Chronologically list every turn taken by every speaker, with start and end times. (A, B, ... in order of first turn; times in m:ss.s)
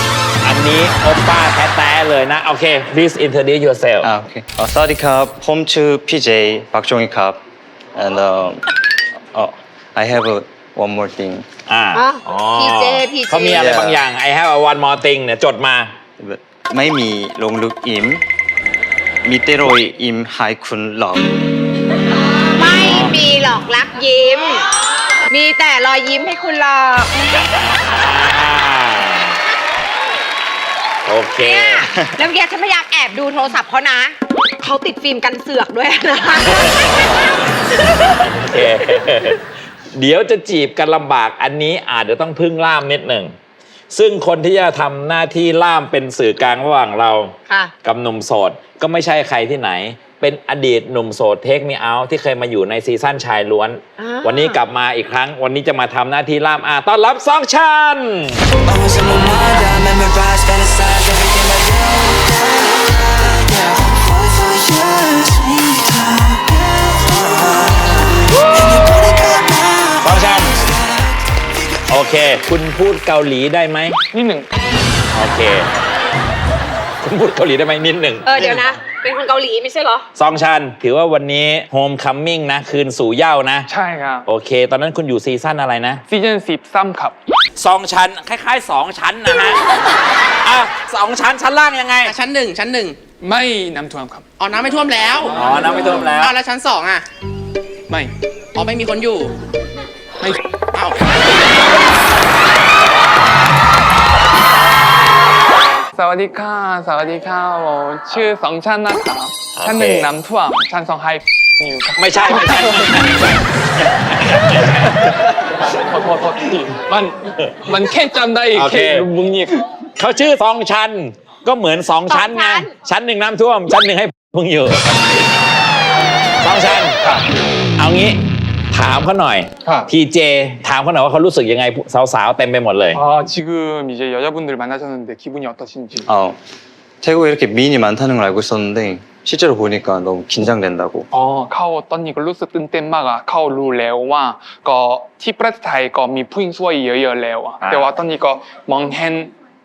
0:00.4-0:04.1 A
0:04.0-0:07.4 B
0:07.9-0:08.7 B
0:09.3-0:11.4 B
0:11.7-0:15.9 A
0:11.9-0:13.7 C
0:13.5-0:14.0 B
0:16.2-0:18.2 B
0:19.2-0:21.3 B
0:22.5-0:24.6 C
0:22.7-0:23.2 A
0:25.3-0:27.4 C
0:27.7-0:29.4 A
0:31.0-0:31.8 A
0:31.3-0:36.7 C
0:36.5-0:37.0 A
0:37.8-0:39.4 A
0:39.9-0:43.4 A
0:43.9-0:58.5 A
0:54.0-0:54.6 C
0:58.6-1:10.1 D
1:10.0-1:10.5 A
1:11.9-1:14.0 A
1:14.1-1:14.5 E
1:15.1-1:15.7 A
1:17.0-1:18.6 A
1:18.2-1:20.0 C
1:20.2-1:23.7 A
1:23.7-1:24.2 E
1:24.2-1:26.0 A
1:26.1-1:27.2 E
1:27.6-1:29.8 A
1:30.4-1:32.1 A
1:32.0-1:33.0 F
1:33.2-1:34.2 E
1:34.4-1:37.0 F
1:35.3-1:36.3 A
1:38.5-1:39.3 F
1:40.2-1:41.2 F
1:45.9-1:53.3 E
1:49.6-1:50.1 A
1:52.0-1:55.0 A
1:55.6-1:59.6 E
1:58.5-1:59.0 A
2:00.0-2:05.2 A
2:02.1-2:02.7 C
2:06.4-2:07.0 A
2:07.8-2:08.2 A
2:08.7-2:13.0 A
2:12.9-2:16.0 E
2:16.1-2:16.4 B
2:17.0-2:21.1 B
2:21.1-2:29.3 E
2:27.6-2:27.9 A